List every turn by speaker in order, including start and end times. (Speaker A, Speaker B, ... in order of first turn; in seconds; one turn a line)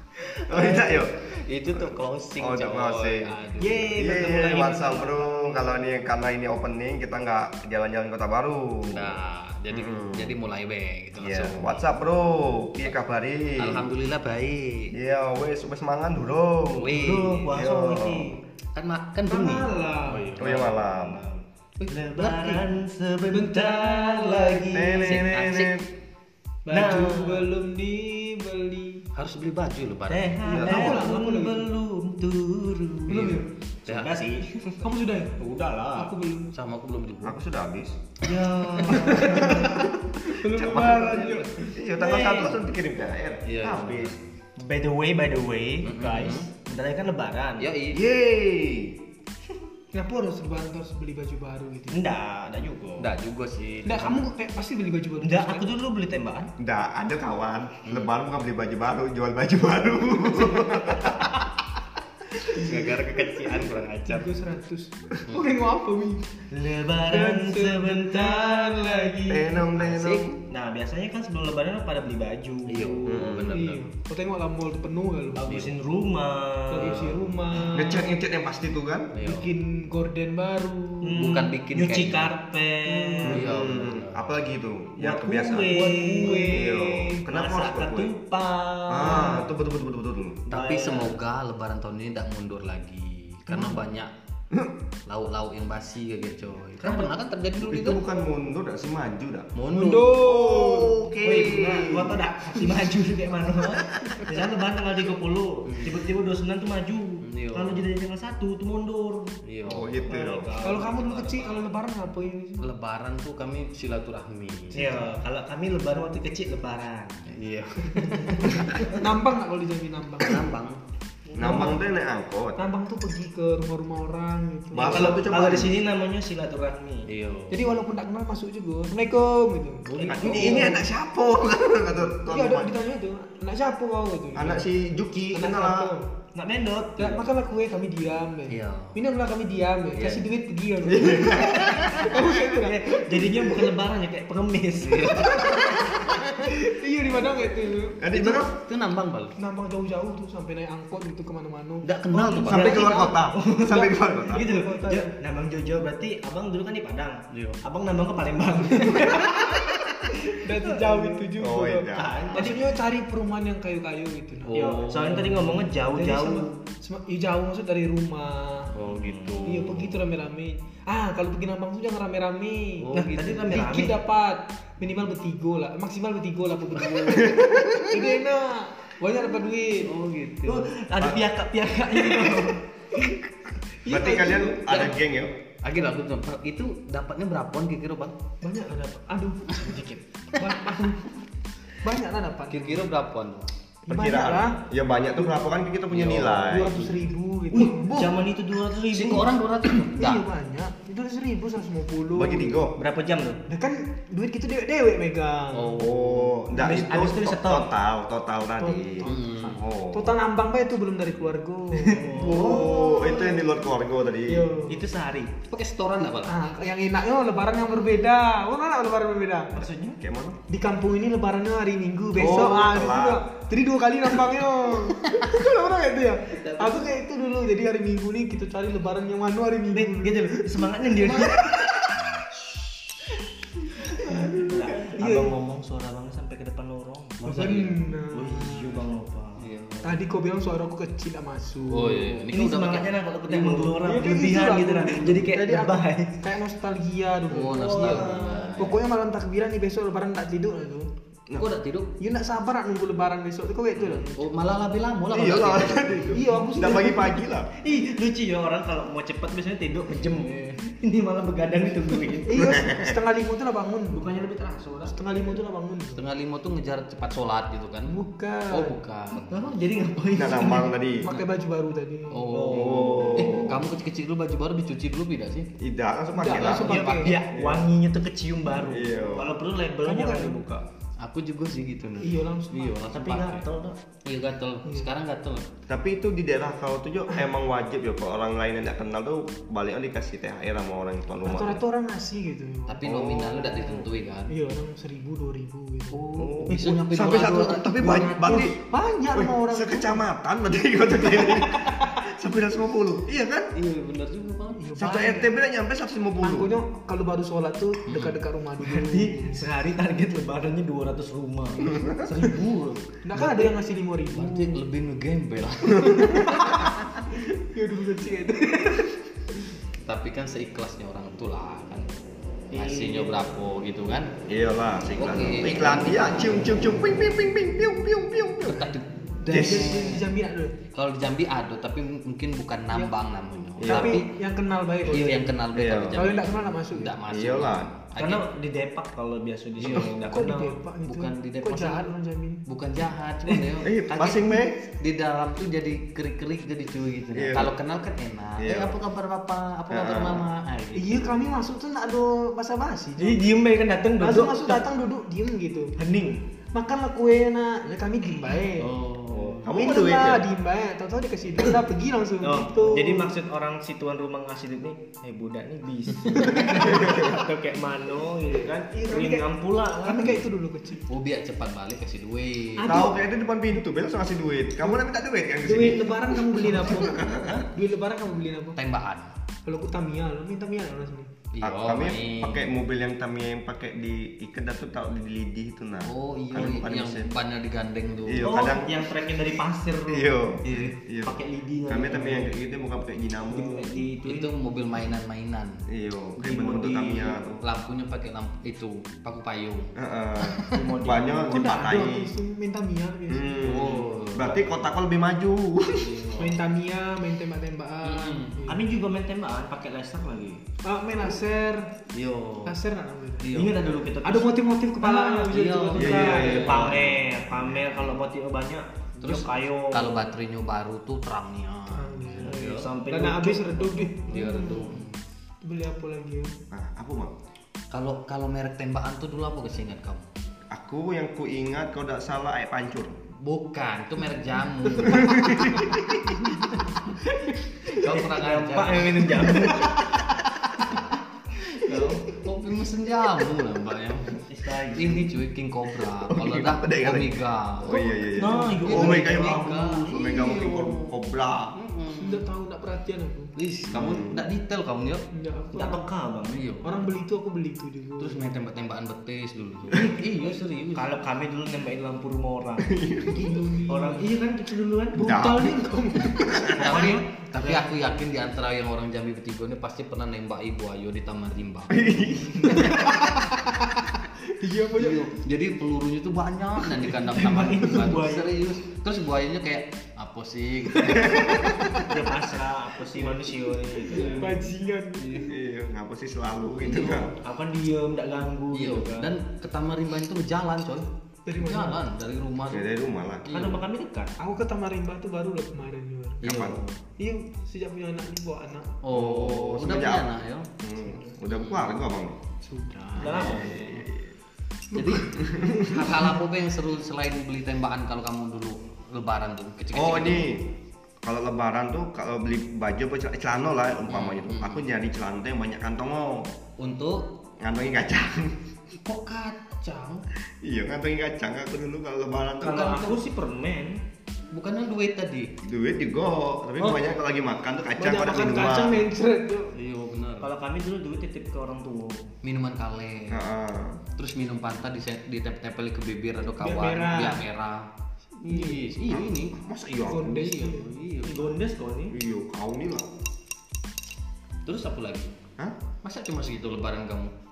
Speaker A: 0.5-3.3
Speaker B: 0.6-0.9
Speaker C: 0.6-4.0
Speaker B: 3.6-5.7
Speaker A: 3.9-9.2
Speaker C: 8.9-11.8
Speaker A: 9.7-10.3
Speaker A: 11.2-13.9
Speaker C: 13.6-14.9
Speaker A: 14.9-18.3
Speaker C: 16.8-17.5
Speaker B: 16.9-18.4
Speaker C: 18.7-20.8
Speaker D: 19.2-20.4
Speaker A: 20.4-21.2
Speaker B: 20.4-21.1
Speaker C: 21.8-22.6
Speaker B: 21.9-25.0
Speaker D: 23.3-25.1
Speaker A: 24.7-25.9
Speaker C: 25.0-25.8
Speaker D: 26.6-29.0
Speaker B: 26.7-27.5
Speaker C: 29.1-30.3
Speaker B: 30.1-34.8
Speaker D: 30.4-31.7
Speaker A: 30.5-31.1
Speaker D: 33.1-33.5
Speaker C: 33.1-34.1
Speaker D: 34.8-35.4
Speaker B: 35.4-36.1
Speaker D: 35.9-36.5
Speaker C: 36.5-37.4
Speaker A: 37.2-38.0
Speaker B: 38.2-39.9
Speaker D: 38.9-41.7
Speaker A: 40.4-44.2
Speaker B: 41.9-42.6
Speaker C: 43.5-44.2
Speaker B: 44.6-47.7
Speaker C: 45.8-46.5
Speaker C: 47.6-48.0
Speaker A: 47.9-49.0
Speaker D: 49.9-52.0
Speaker B: 51.9-53.1
Speaker C: 53.0-54.2
Speaker D: 53.8-55.6
Speaker B: 55.2-56.5
Speaker A: 56.6-61.3
Speaker C: 57.9-58.1
Speaker D: 62.4-63.0
Speaker C: 62.5-64.3
Speaker D: 64.0-66.4
Speaker B: 66.5-69.3
Speaker D: 67.0-69.6
Speaker A: 69.3-70.4
Speaker C: 69.7-70.3
Speaker B: 70.4-73.3
Speaker C: 72.7-73.8
Speaker A: 73.0-73.5
Speaker D: 73.3-75.5
Speaker B: 75.4-77.3
Speaker C: 75.5-75.7
Speaker D: 76.7-78.1
Speaker A: 77.7-79.1
Speaker C: 79.1-79.5
Speaker D: 79.2-81.2
Speaker B: 81.0-83.5
Speaker C: 81.2-82.3
Speaker D: 82.8-83.4
Speaker A: 83.2-85.8
Speaker C: 83.3-84.4
Speaker B: 85.0-89.4
Speaker D: 85.6-87.2
Speaker A: 86.3-88.1
Speaker A: 88.9-90.4
Speaker D: 89.0-89.4
Speaker B: 90.5-91.2
Speaker C: 90.5-94.1
Speaker C: 95.1-98.0
Speaker B: 96.8-97.1
Speaker A: 97.6-99.5
Speaker C: 99.5-100.2
Speaker D: 99.7-101.0
Speaker A: 100.1-102.2
Speaker B: 101.2-109.3
Speaker C: 105.7-106.0
Speaker C: 107.2-107.8
Speaker C: 109.5-110.0
Speaker A: 109.6-110.5
Speaker B: 110.1-111.6
Speaker D: 110.6-112.7
Speaker C: 112.6-115.0
Speaker B: 114.7-117.2
Speaker D: 114.7-115.0
Speaker C: 117.3-119.0
Speaker D: 117.9-120.5
Speaker C: 120.2-120.8
Speaker D: 121.3-121.8
Speaker A: 121.3-122.6
Speaker D: 122.6-125.3
Speaker A: 124.7-125.8
Speaker B: 124.8-127.1
Speaker C: 127.1-127.9
Speaker D: 127.5-130.8
Speaker A: 129.9-132.7
Speaker C: 130.2-130.6
Speaker B: 130.3-130.7
Speaker D: 132.3-136.1
Speaker A: 134.3-135.9
Speaker B: 136.3-137.2
Speaker D: 137.0-143.7
Speaker C: 138.5-139.0
Speaker C: 139.9-140.3
Speaker A: 140.8-142.2
Speaker B: 142.1-145.7
Speaker C: 144.8-146.5
Speaker D: 145.2-148.4
Speaker A: 148.0-148.5
Speaker C: 148.2-149.3
Speaker D: 149.3-151.9
Speaker C: 151.8-152.9
Speaker B: 152.1-159.7
Speaker A: 152.5-154.4
Speaker D: 152.6-153.2
Speaker D: 153.8-155.1
Speaker C: 157.3-157.6
Speaker D: 158.7-159.7
Speaker D: 160.2-164.5
Speaker B: 160.7-161.2
Speaker A: 161.4-162.3
Speaker B: 161.9-162.8
Speaker C: 164.4-165.7
Speaker B: 164.5-166.5
Speaker D: 165.9-168.7
Speaker C: 168.7-170.0
Speaker B: 168.9-169.6
Speaker D: 169.4-179.9
Speaker C: 172.8-173.6
Speaker B: 172.9-174.0
Speaker A: 177.1-178.0
Speaker C: 179.8-180.7
Speaker B: 180.4-182.6
Speaker D: 183.8-184.9
Speaker A: 183.9-185.3
Speaker C: 184.7-184.9
Speaker C: 185.6-188.1
Speaker D: 188.4-189.8
Speaker B: 189.6-190.0
Speaker D: 190.3-191.1
Speaker D: 191.8-192.8
Speaker C: 192.5-193.5
Speaker D: 193.8-194.6
Speaker A: 193.9-196.9
Speaker D: 195.2-195.5
Speaker C: 195.9-196.9
Speaker D: 196.5-198.2
Speaker B: 197.5-199.3
Speaker C: 198.9-200.2
Speaker D: 199.9-202.6
Speaker A: 202.1-202.8
Speaker B: 202.8-203.4
Speaker D: 203.4-205.8
Speaker C: 205.5-206.4
Speaker A: 205.8-210.1
Speaker B: 206.5-207.7
Speaker D: 208.6-213.5
Speaker C: 209.0-209.7
Speaker B: 211.8-212.7
Speaker A: 212.1-214.5
Speaker D: 214.3-214.8
Speaker B: 214.7-215.3
Speaker C: 215.5-216.4
Speaker D: 216.2-219.6
Speaker B: 219.5-220.0
Speaker A: 219.6-220.4
Speaker D: 220.5-231.9
Speaker A: 222.1-223.2
Speaker C: 226.4-226.9
Speaker B: 229.7-231.5
Speaker D: 233.7-235.3
Speaker B: 234.1-239.4
Speaker C: 237.2-237.8
Speaker D: 237.3-239.0
Speaker C: 239.4-240.0
Speaker D: 239.8-242.3
Speaker C: 241.7-242.9
Speaker B: 242.3-246.2
Speaker D: 243.3-250.9
Speaker C: 247.3-248.8
Speaker B: 247.5-248.5
Speaker C: 251.3-251.9
Speaker D: 252.0-254.2
Speaker C: 253.8-256.1
Speaker A: 255.1-257.5
Speaker D: 256.1-257.2
Speaker B: 257.6-262.4
Speaker D: 262.2-264.1
Speaker A: 262.4-262.9
Speaker B: 263.9-265.4
Speaker D: 264.9-266.0
Speaker C: 265.9-267.9
Speaker D: 267.9-268.7
Speaker C: 268.5-269.5
Speaker B: 269.2-270.7
Speaker A: 270.1-271.1
Speaker D: 270.9-272.3
Speaker C: 272.1-275.5
Speaker B: 272.3-273.5
Speaker A: 272.5-273.6
Speaker A: 275.6-277.7
Speaker D: 276.2-277.2
Speaker B: 276.3-280.6
Speaker C: 276.5-277.0
Speaker A: 278.5-279.4
Speaker D: 279.8-280.4
Speaker C: 281.0-283.4
Speaker D: 282.0-282.8
Speaker B: 282.9-283.8
Speaker C: 284.0-285.5
Speaker A: 285.7-291.6
Speaker D: 291.2-293.7
Speaker C: 292.7-294.3
Speaker A: 292.8-293.5
Speaker D: 294.3-296.8
Speaker C: 295.9-298.1
Speaker A: 296.1-298.6
Speaker B: 297.0-298.5
Speaker D: 298.2-300.0
Speaker A: 299.1-303.5
Speaker D: 301.0-302.0
Speaker C: 303.5-304.6
Speaker D: 304.6-305.4
Speaker A: 304.8-306.5
Speaker D: 306.2-309.4
Speaker C: 307.9-308.2
Speaker B: 308.6-312.8
Speaker A: 311.7-312.1
Speaker D: 313.0-314.6
Speaker C: 313.1-313.5
Speaker C: 314.1-317.0
Speaker D: 315.8-316.5
Speaker D: 317.1-318.9
Speaker C: 319.8-321.9
Speaker B: 322.5-323.4
Speaker C: 322.5-324.1
Speaker A: 324.3-328.7
Speaker C: 325.0-326.3
Speaker C: 328.4-330.1
Speaker A: 329.3-329.9
Speaker D: 329.3-330.5
Speaker C: 330.7-334.1
Speaker A: 333.6-334.0
Speaker D: 333.6-335.3
Speaker C: 334.8-338.2
Speaker A: 335.5-336.1
Speaker D: 335.9-336.9
Speaker A: 337.1-337.7
Speaker B: 337.9-340.6
Speaker C: 339.6-339.9
Speaker D: 340.0-342.4
Speaker C: 340.8-341.9
Speaker C: 342.4-351.1
Speaker A: 343.6-344.6
Speaker A: 347.1-347.5
Speaker A: 348.4-348.8
Speaker A: 349.7-350.2
Speaker D: 350.7-353.2
Speaker B: 353.0-354.6
Speaker D: 354.0-355.7
Speaker B: 355.8-356.2
Speaker D: 356.5-358.7
Speaker C: 358.6-359.5
Speaker A: 359.1-360.3
Speaker D: 359.5-363.1
Speaker B: 362.2-370.2
Speaker C: 365.9-366.4
Speaker D: 366.3-366.7
Speaker A: 366.7-367.1
Speaker D: 368.7-370.9
Speaker C: 370.9-372.9
Speaker D: 372.6-373.0
Speaker A: 372.6-377.4
Speaker D: 375.4-378.6
Speaker C: 378.6-379.1
Speaker D: 379.4-381.1
Speaker C: 381.3-382.5
Speaker A: 381.4-387.1
Speaker C: 385.9-388.3
Speaker A: 388.0-388.9
Speaker B: 388.2-390.2
Speaker A: 389.9-393.7
Speaker C: 390.4-390.8
Speaker B: 391.0-392.3
Speaker B: 393.3-394.4
Speaker C: 394.0-395.6
Speaker A: 395.7-397.4
Speaker B: 396.2-397.2
Speaker C: 397.4-400.6
Speaker A: 399.8-402.1
Speaker B: 400.5-401.8
Speaker D: 401.3-403.7
Speaker A: 403.1-406.0
Speaker C: 403.4-404.5
Speaker C: 405.8-406.4
Speaker D: 406.1-408.6
Speaker C: 407.8-408.4
Speaker B: 408.5-410.4
Speaker D: 410.6-411.7
Speaker C: 411.9-412.6
Speaker D: 412.4-413.3
Speaker C: 413.2-413.7
Speaker B: 413.3-415.4
Speaker D: 414.0-416.6
Speaker C: 415.3-416.9
Speaker A: 415.8-417.0
Speaker B: 415.9-420.1
Speaker C: 419.0-422.7
Speaker D: 421.7-424.9
Speaker B: 422.2-423.9
Speaker C: 424.1-425.0
Speaker D: 425.4-426.3
Speaker A: 426.5-427.1
Speaker C: 427.7-430.1
Speaker A: 430.5-433.0
Speaker C: 433.2-436.9
Speaker D: 434.9-435.9
Speaker A: 435.0-435.6
Speaker D: 437.0-437.8
Speaker C: 437.7-439.5
Speaker B: 437.8-439.7
Speaker D: 439.2-439.8
Speaker C: 440.2-440.9
Speaker C: 441.6-444.2
Speaker B: 444.3-445.2
Speaker C: 444.7-450.9
Speaker A: 445.9-451.5
Speaker B: 448.1-449.9
Speaker D: 449.9-450.7
Speaker C: 451.5-452.2
Speaker D: 452.0-453.3
Speaker C: 453.4-455.0
Speaker A: 453.7-454.3
Speaker D: 455.1-455.8
Speaker B: 455.5-456.4
Speaker C: 456.3-456.7
Speaker D: 456.6-458.2
Speaker C: 458.0-460.9
Speaker B: 459.7-460.1
Speaker B: 460.7-462.8
Speaker A: 462.6-463.3
Speaker D: 463.0-464.1
Speaker B: 463.7-465.2
Speaker D: 464.9-466.6
Speaker A: 465.0-465.5
Speaker C: 465.1-465.6
Speaker A: 466.2-466.7
Speaker C: 466.2-471.8
Speaker B: 466.5-467.7
Speaker A: 471.7-472.9
Speaker C: 472.5-472.8
Speaker D: 472.5-475.1
Speaker C: 474.8-481.9
Speaker B: 476.9-478.4
Speaker A: 480.9-481.4
Speaker D: 480.9-481.9
Speaker B: 481.9-484.4
Speaker D: 483.9-485.3
Speaker C: 483.9-484.2
Speaker C: 485.0-485.3
Speaker A: 485.3-487.1
Speaker C: 486.6-487.1
Speaker B: 487.2-489.1
Speaker C: 488.5-492.7
Speaker D: 491.2-491.8
Speaker A: 492.5-493.3
Speaker C: 493.2-493.6
Speaker B: 493.3-494.1
Speaker D: 494.2-496.2
Speaker A: 496.2-496.6
Speaker C: 496.2-496.8
Speaker D: 497.0-498.8
Speaker C: 498.8-500.5
Speaker A: 498.9-502.2
Speaker C: 501.2-501.8
Speaker D: 502.4-503.3
Speaker B: 503.0-503.8
Speaker C: 503.0-503.6
Speaker A: 503.0-504.1
Speaker D: 504.7-505.9
Speaker C: 504.7-510.4
Speaker A: 505.3-505.7
Speaker A: 509.7-510.5
Speaker A: 511.0-516.3
Speaker C: 513.9-514.6
Speaker C: 516.6-517.1
Speaker A: 517.4-518.4
Speaker C: 518.8-520.0
Speaker A: 520.4-522.8
Speaker B: 522.4-523.8
Speaker C: 522.4-523.0
Speaker C: 524.3-525.3
Speaker A: 525.4-528.8
Speaker B: 526.6-526.9
Speaker D: 527.8-529.5
Speaker C: 529.5-530.3
Speaker B: 530.2-532.1
Speaker C: 532.2-533.2
Speaker A: 533.1-533.8
Speaker C: 533.9-537.7
Speaker D: 536.4-537.2
Speaker C: 538.2-539.4
Speaker D: 538.2-538.6
Speaker A: 538.8-540.3
Speaker D: 539.9-540.7
Speaker C: 540.0-541.3
Speaker B: 541.0-542.0
Speaker A: 541.9-542.9
Speaker C: 544.4-545.1
Speaker C: 545.8-547.1